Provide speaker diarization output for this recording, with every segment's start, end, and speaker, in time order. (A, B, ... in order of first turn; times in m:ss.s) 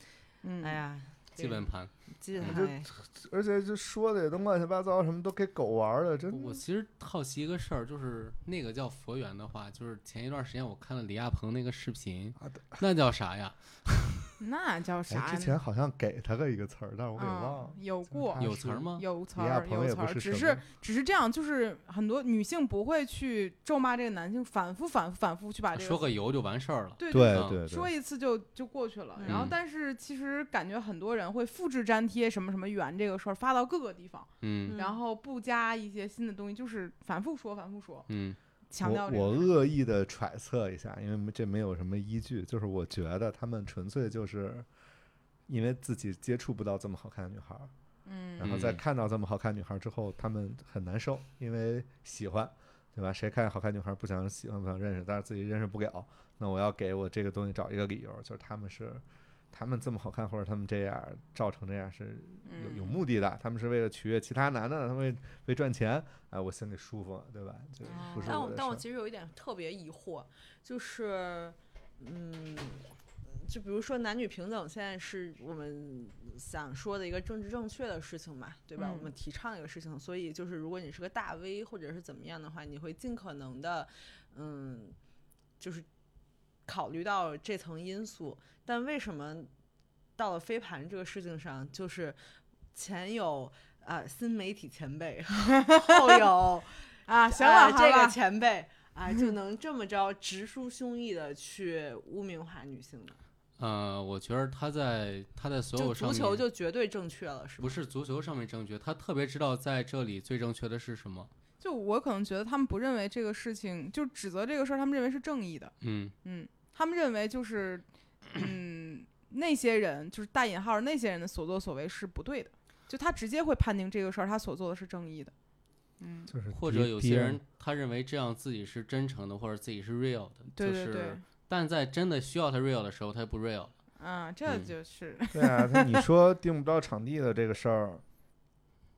0:00.4-0:00.8 A
0:00.6-0:02.9 B
0:01.4-0:02.6 C
0:02.4-0:06.6 D
0:06.3-0:14.0 C
0:12.5-0:12.8 D
0:14.4-0:15.6 A
0:15.1-0:20.6 D
0:17.2-0:18.4 A
0:18.4-0:19.0 C
0:18.9-0:26.0 A
0:25.7-0:27.6 C
0:27.0-0:38.1 A
0:27.1-0:27.9 D
0:29.2-0:29.5 B
0:29.3-0:29.6 C
0:34.4-0:34.8 C
0:34.6-0:35.0 B
0:38.1-0:38.4 C
0:38.7-0:39.5 A
0:38.8-0:44.7 D
0:45.5-0:47.7 D
0:48.0-0:48.6 A
0:48.4-1:08.8 D
0:48.4-0:48.8 C
1:02.4-1:03.0 A
1:07.8-1:08.4 A
1:08.2-1:25.0 B
1:18.8-1:19.1 A
1:25.6-1:25.9 B
1:26.6-1:29.5 B
1:30.2-1:32.2 B
1:32.7-1:43.2 B
1:35.6-1:36.1 A
1:37.1-1:38.2 A
1:43.6-1:46.4 C
1:45.8-1:47.8 B
1:47.6-1:51.3 C
1:51.6-2:05.3 A
1:55.8-1:56.1 C
2:06.0-2:06.3 A
2:06.3-2:07.4 D
2:06.5-2:13.7 C
2:10.5-2:11.2 A
2:14.0-2:16.0 A
2:14.4-2:14.7 C
2:15.3-2:18.0 D